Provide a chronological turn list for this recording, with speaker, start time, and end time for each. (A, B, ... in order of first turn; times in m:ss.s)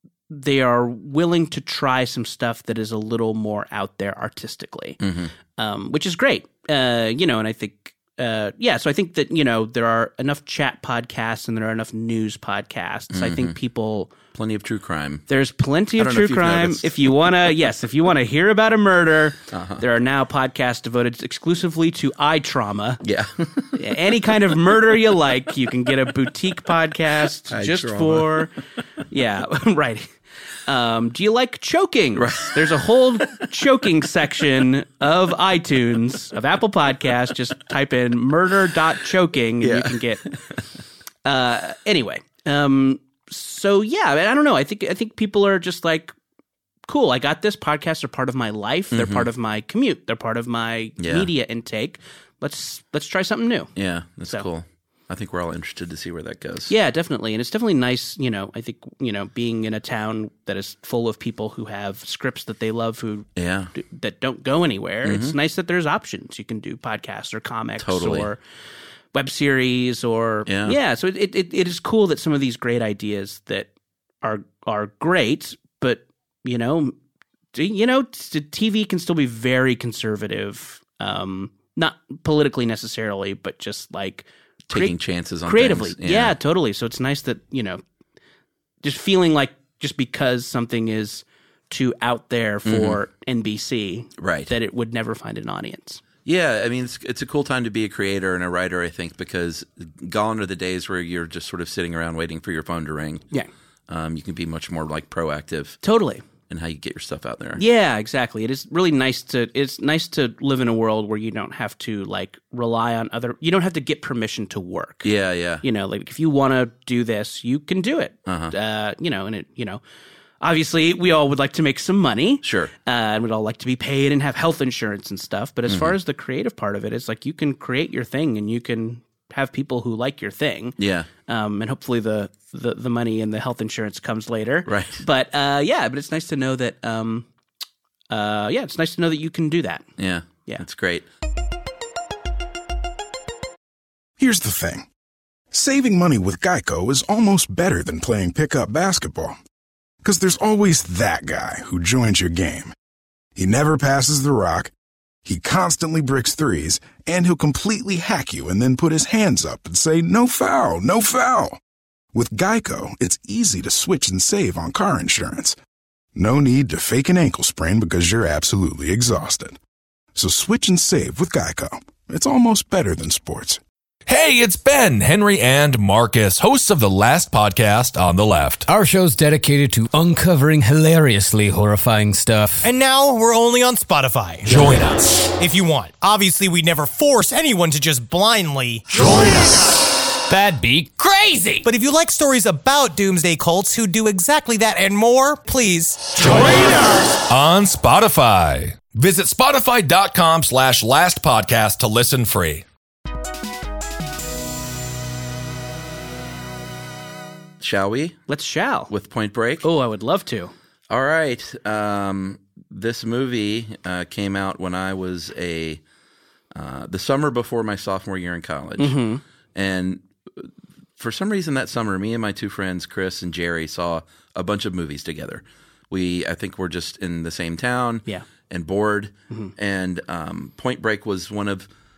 0:00.3-0:05.0 A
0:05.0-0:05.3 B
0:05.6-0:14.1 A
0:13.1-0:13.6 B
0:14.3-0:15.2 B
0:15.3-0:23.0 A
0:16.0-0:17.1 B
0:19.5-0:19.8 B
0:23.0-0:23.7 B
0:23.7-0:28.5 A
0:27.5-0:28.5 B
0:29.1-0:30.1 A
0:30.7-0:40.2 A
0:32.2-0:32.8 B
0:39.6-0:40.4 B
0:41.2-0:46.1 A
0:46.9-0:53.7 A
0:48.9-0:49.3 B
0:51.0-0:51.3 B
0:53.8-0:56.7 B
0:56.7-1:08.4 A
1:03.4-1:03.7 B
1:05.0-1:05.4 B
1:07.8-1:08.3 B
1:09.1-1:13.7 A
1:10.5-1:10.8 B
1:14.2-1:16.9 A
1:17.5-1:27.8 A
1:24.7-1:26.4 B
1:28.8-1:36.0 A
1:32.7-1:33.0 B
1:34.2-1:34.5 B
1:36.2-1:43.2 B
1:43.9-1:45.8 B
1:45.8-1:46.2 A
1:46.5-1:47.6 B
1:47.6-1:55.1 A
1:55.0-1:55.6 B
1:55.6-1:59.8 A
1:58.3-1:58.5 B
2:00.4-2:17.3 A
2:02.4-2:02.7 B
2:05.7-2:06.0 B
2:10.8-2:11.1 B
2:14.7-2:15.0 B
2:18.1-2:19.9 A
2:20.0-2:21.0 B
2:24.2-2:24.9 C
2:25.5-2:29.4 C
2:30.0-2:32.7 C
2:33.4-2:34.7 C
2:35.2-2:41.6 C
2:42.1-2:45.6 C
2:46.2-2:49.6 C
2:50.2-2:53.6 C
2:54.1-2:58.7 D
2:58.7-3:02.6 E
3:02.6-3:04.6 F
3:04.5-3:05.3 D
3:05.2-3:09.6 F
3:10.3-3:11.6 E
3:11.6-3:16.2 F
3:16.1-3:22.6 D
3:27.6-3:28.2 B
3:28.3-3:28.9 A
3:28.9-3:29.6 B
3:29.6-3:30.5 A
3:30.9-3:35.8 B
3:36.6-3:39.0 B
3:38.8-3:39.2 A
3:39.6-3:51.7 B